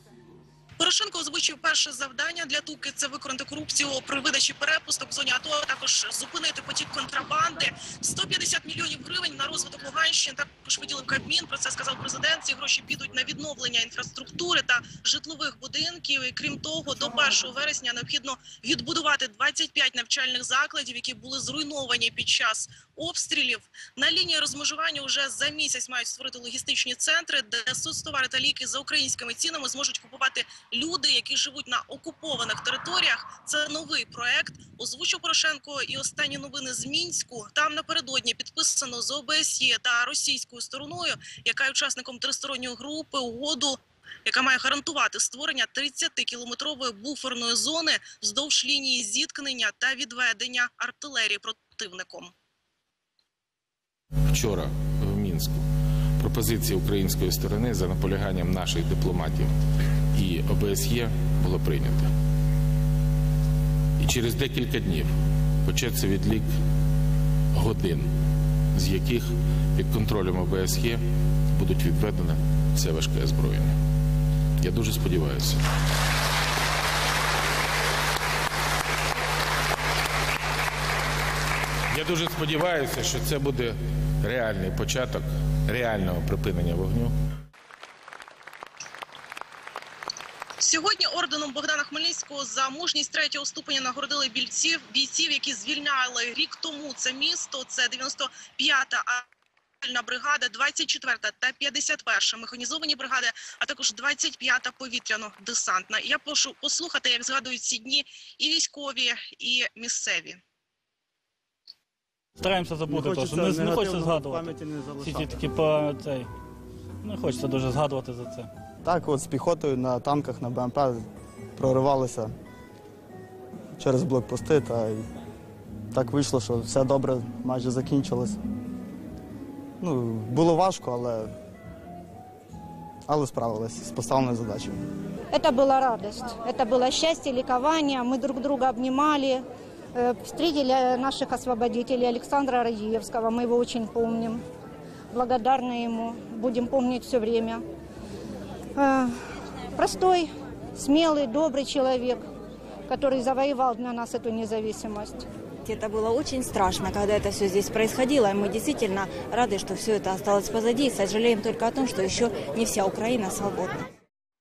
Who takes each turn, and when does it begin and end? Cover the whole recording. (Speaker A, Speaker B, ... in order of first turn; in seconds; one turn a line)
Speaker A: 0.8-52.3
Speaker B: 54.3-55.6
Speaker B: 56.2-59.5
Speaker B: 60.1-62.1
Speaker B: 64.0-65.1
Speaker B: 65.7-66.5
Speaker B: 67.5-68.1
Speaker B: 68.7-71.0
Speaker B: 71.5-73.7
Speaker B: 74.6-75.6
Speaker B: 81.9-87.1
Speaker A: 90.6-99.3
Speaker A: 99.8-110.4
Speaker C: 112.4-116.3
Speaker D: 112.9-115.3
Speaker C: 117.0-118.5
Speaker D: 118.8-122.3
Speaker D: 123.8-125.0
Speaker D: 125.9-128.4
Speaker D: 129.8-131.3
Speaker D: 133.1-134.8
Speaker E: 135.3-139.4
Speaker E: 139.9-144.4
Speaker E: 145.1-147.6
Speaker E: 148.8-149.1
Speaker E: 149.8-152.2
Speaker E: 152.9-155.2
Speaker F: 155.7-163.8